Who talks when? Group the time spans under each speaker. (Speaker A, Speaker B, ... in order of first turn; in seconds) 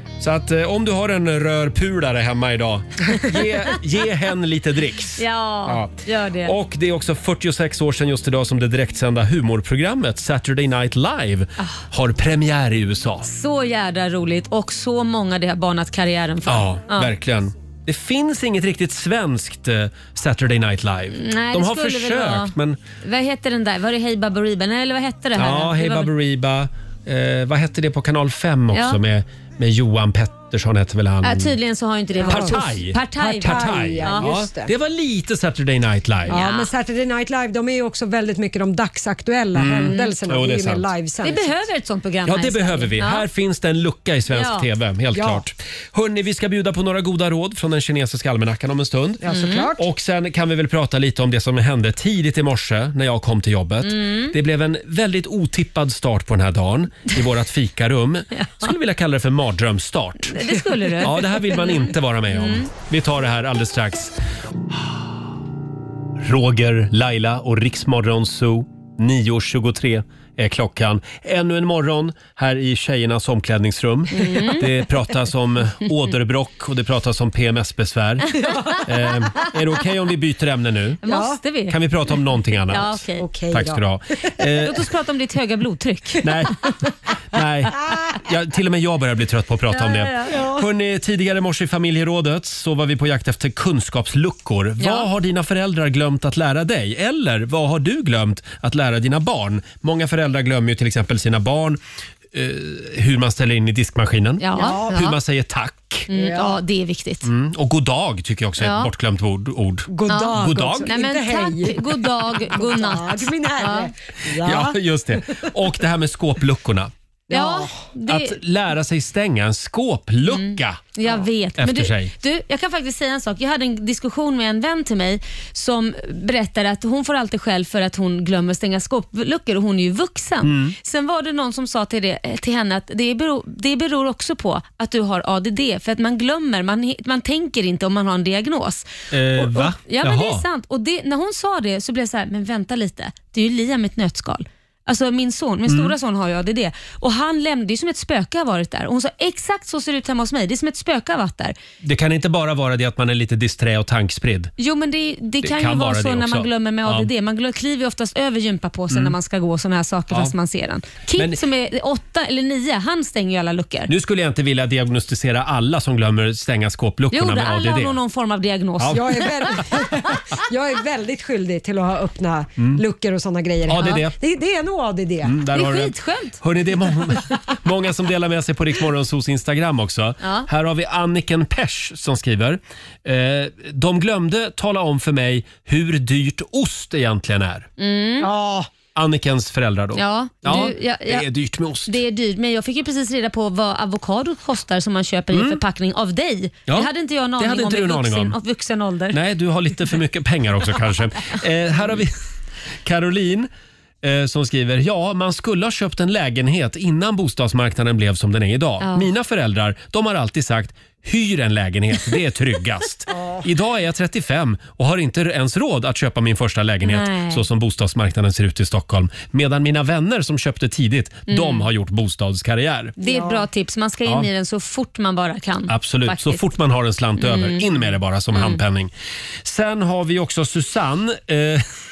Speaker A: 0.2-13.3, 16.4-22.8, 25.4-31.6, 32.3-36.4, 39.5-40.9, 42.2-49.2, 49.8-60.4, 61.0-64.1, 64.7-65.0, 66.2-81.0, 81.7-84.9, 86.2-86.7, 87.3-101.8, 102.3-106.1, 107.2-110.9, 114.3-116.9, 118.1-120.9, 121.6-122.1, 130.4-130.8, 139.1-140.4, 145.7-146.0, 151.8-154.5, 155.4-157.1, 158.9-159.2, 161.2-161.4, 163.9-168.0, 168.8-169.1, 173.7-174.2, 175.2-187.7, 188.9-192.0, 195.3-195.6, 196.7-198.4, 199.1-202.2, 202.8-203.5, 204.0-223.0, 225.7-228.9, 229.4-231.7
Speaker B: 5.2-6.5, 13.3-17.1, 21.1-26.1, 28.7-29.0, 31.2-34.3, 36.3-36.7, 39.9-40.1, 41.2-43.3, 44.3-44.7, 49.3-49.7, 53.8-54.3, 58.4-58.7, 60.2-62.7, 74.1-74.7, 81.0-81.8, 82.7-83.3, 84.6-86.3, 89.7-90.3, 94.8-95.1, 104.4-105.2, 106.1-107.3, 108.6-108.9, 110.1-113.9, 117.3-118.4, 120.3-151.6, 154.6-163.9, 167.1-169.3, 175.5-176.4, 180.2-180.5, 187.8-188.3, 190.0-191.3, 191.9-199.2, 208.8-209.1, 216.8-217.4, 221.3-221.7, 223.0-226.4, 227.2-227.8, 228.3-228.6
Speaker C: 32.2-34.7, 36.3-41.6, 45.1-45.4, 49.2-49.8, 81.0-81.4, 83.2-83.8, 90.3-90.7, 104.5-105.0, 106.1-106.6, 109.9-114.8, 117.3-117.8, 168.9-175.4, 188.2-188.7, 213.2-213.4, 223.0-223.4